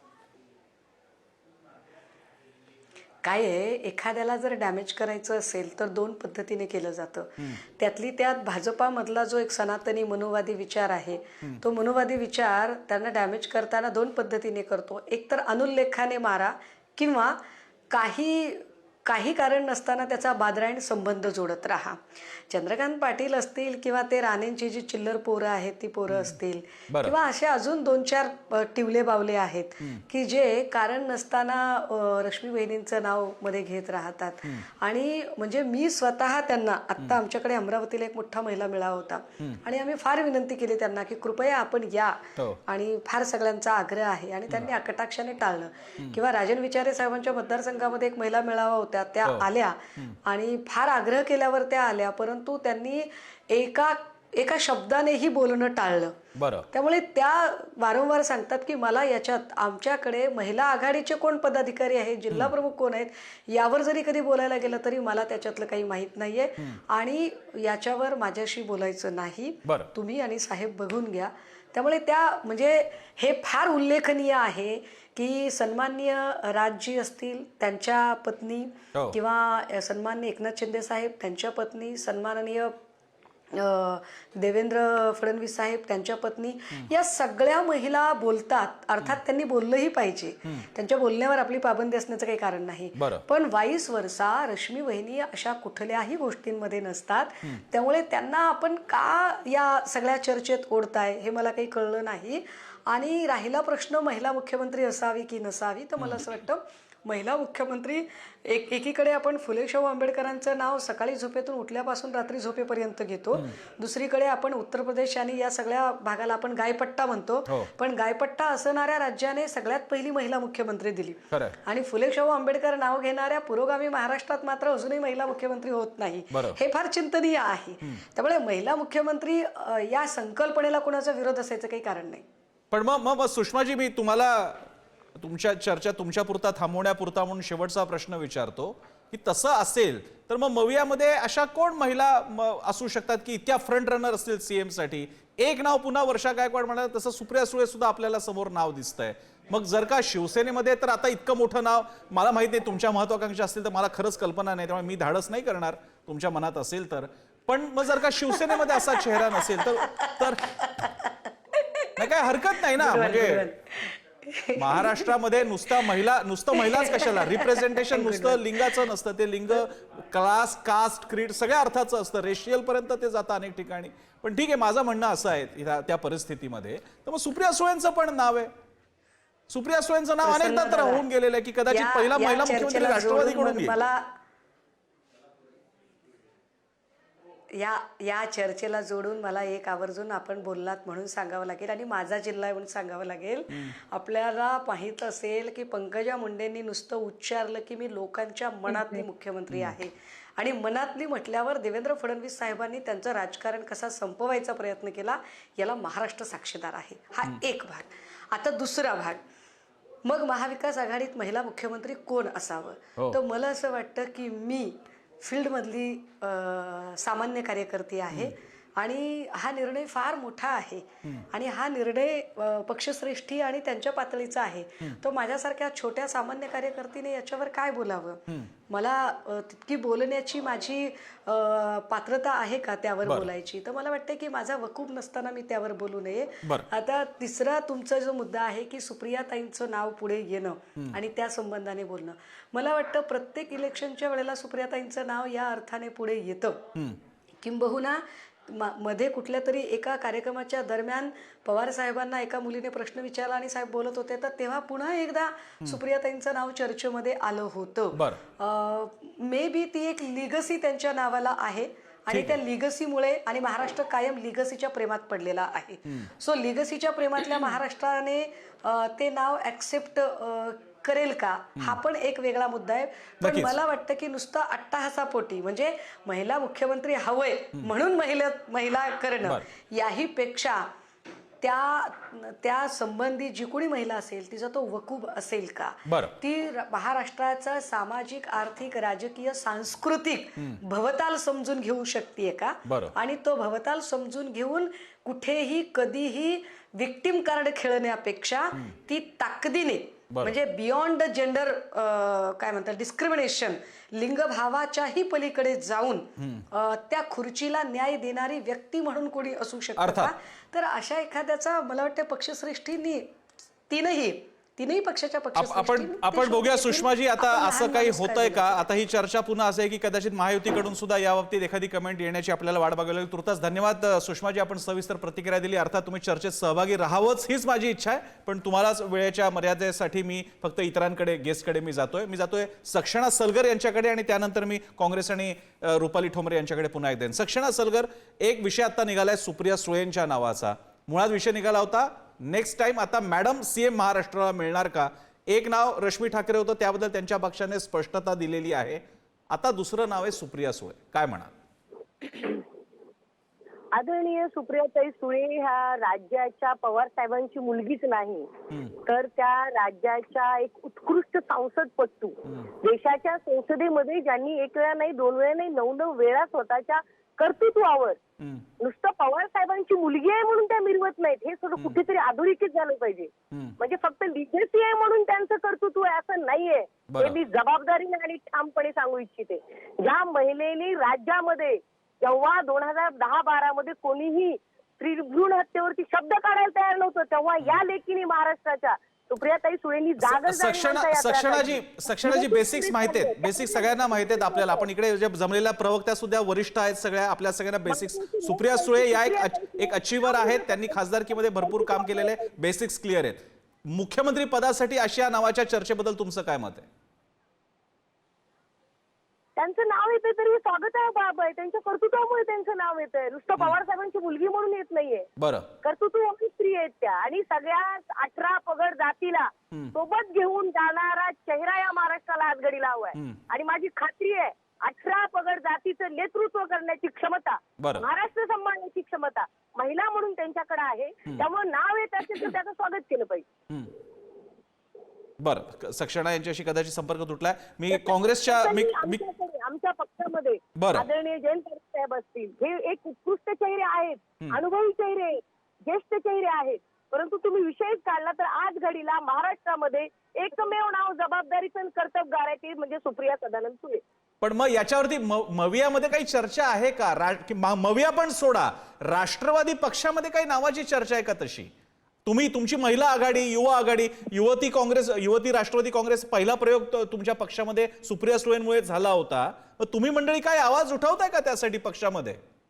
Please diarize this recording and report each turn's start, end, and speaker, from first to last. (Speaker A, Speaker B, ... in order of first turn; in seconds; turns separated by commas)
Speaker A: 3.2-17.4, Speaker A: 17.9-56.2, Speaker B: 26.1-26.4, Speaker B: 26.9-27.1, Speaker B: 49.2-50.1, Speaker B: 56.4-56.7, Speaker A: 56.7-82.8, Speaker B: 69.6-69.9, Speaker A: 83.5-132.2, Speaker B: 93.0-93.2, Speaker B: 106.0-106.2, Speaker B: 121.3-121.6, Speaker B: 126.3-126.6, Speaker B: 132.7-160.6, Speaker A: 158.3-165.2, Speaker B: 161.9-163.5, Speaker B: 164.6-178.5, Speaker A: 165.7-166.0, Speaker A: 166.6-168.8, Speaker B: 179.5-183.8, Speaker A: 180.2-181.1, Speaker A: 181.7-184.1, Speaker A: 187.5-209.2, Speaker B: 199.5-199.8, Speaker A: 210.0-246.7, Speaker B: 218.1-218.3, Speaker B: 233.0-233.3, Speaker A: 247.4-280.7, Speaker B: 257.9-258.2, Speaker B: 262.1-262.4, Speaker B: 273.2-273.6, Speaker A: 281.4-313.1, Speaker B: 285.9-286.1, Speaker B: 292.6-292.9, Speaker B: 300.1-300.4, Speaker B: 306.2-306.4, Speaker B: 309.8-310.1, Speaker A: 313.7-318.6, Speaker B: 315.3-351.3, Speaker C: 352.1-352.4, Speaker C: 353.7-368.0, Speaker B: 358.5-358.8, Speaker B: 368.2-368.5, Speaker C: 368.6-394.6, Speaker B: 376.9-377.2, Speaker B: 390.0-406.7, Speaker C: 397.7-402.3, Speaker C: 409.4-415.1, Speaker B: 415.2-415.5, Speaker C: 415.6-433.3, Speaker B: 422.9-423.2, Speaker B: 427.6-427.9, Speaker B: 435.2-439.0, Speaker C: 437.7-453.8, Speaker B: 440.6-440.9, Speaker B: 454.2-461.5, Speaker B: 462.0-472.2